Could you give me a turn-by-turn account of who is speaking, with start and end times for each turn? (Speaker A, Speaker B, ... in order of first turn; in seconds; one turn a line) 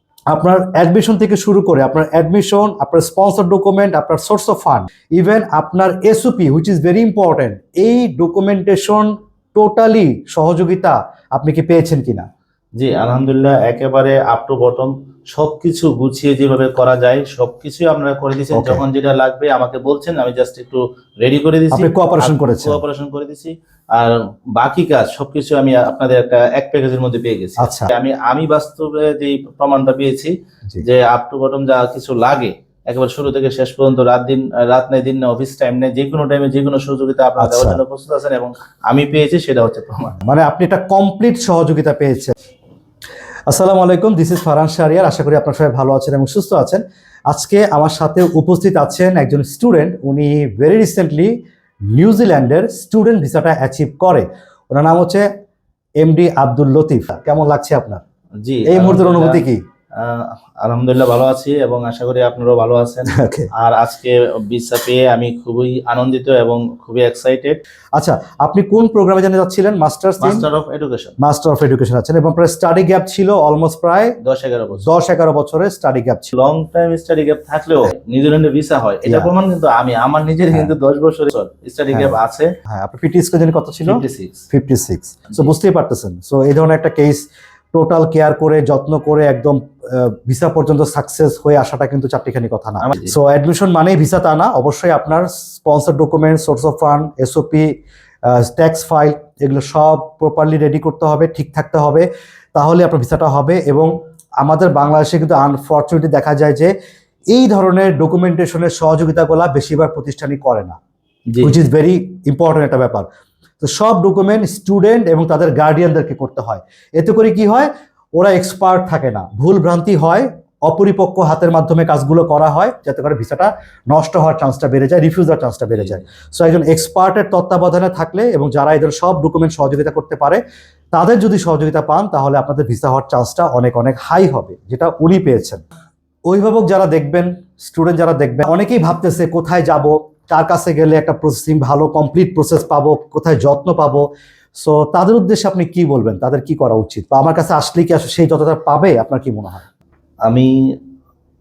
Speaker A: 0.3-12.3
Speaker B: 12.8-40.2
Speaker A: 18.5-18.8
Speaker A: 21.7-22.8
Speaker A: 27.6-27.9
Speaker A: 37.4-37.8
Speaker A: 40.2-42.3
Speaker A: 43.5-51.3
Speaker A: 51.9-55.3
Speaker A: 56.0-58.0
Speaker B: 58.4-59.4
Speaker A: 58.7-59.6
Speaker B: 60.0-67.6
Speaker A: 63.1-63.5
Speaker A: 68.0-70.5
Speaker B: 70.2-71.2
Speaker A: 71.2-74.2
Speaker B: 74.2-74.9
Speaker A: 74.8-76.3
Speaker B: 76.3-82.5
Speaker A: 79.0-79.3
Speaker A: 82.7-97.7
Speaker B: 83.8-84.5
Speaker B: 92.8-93.2
Speaker A: 98.3-103.9
Speaker A: 104.4-106.7
Speaker A: 107.3-110.8
Speaker A: 111.4-113.1
Speaker A: 113.6-130.4
Speaker B: 125.8-126.0
Speaker A: 130.9-135.6
Speaker A: 136.3-149.7
Speaker B: 150.3-150.8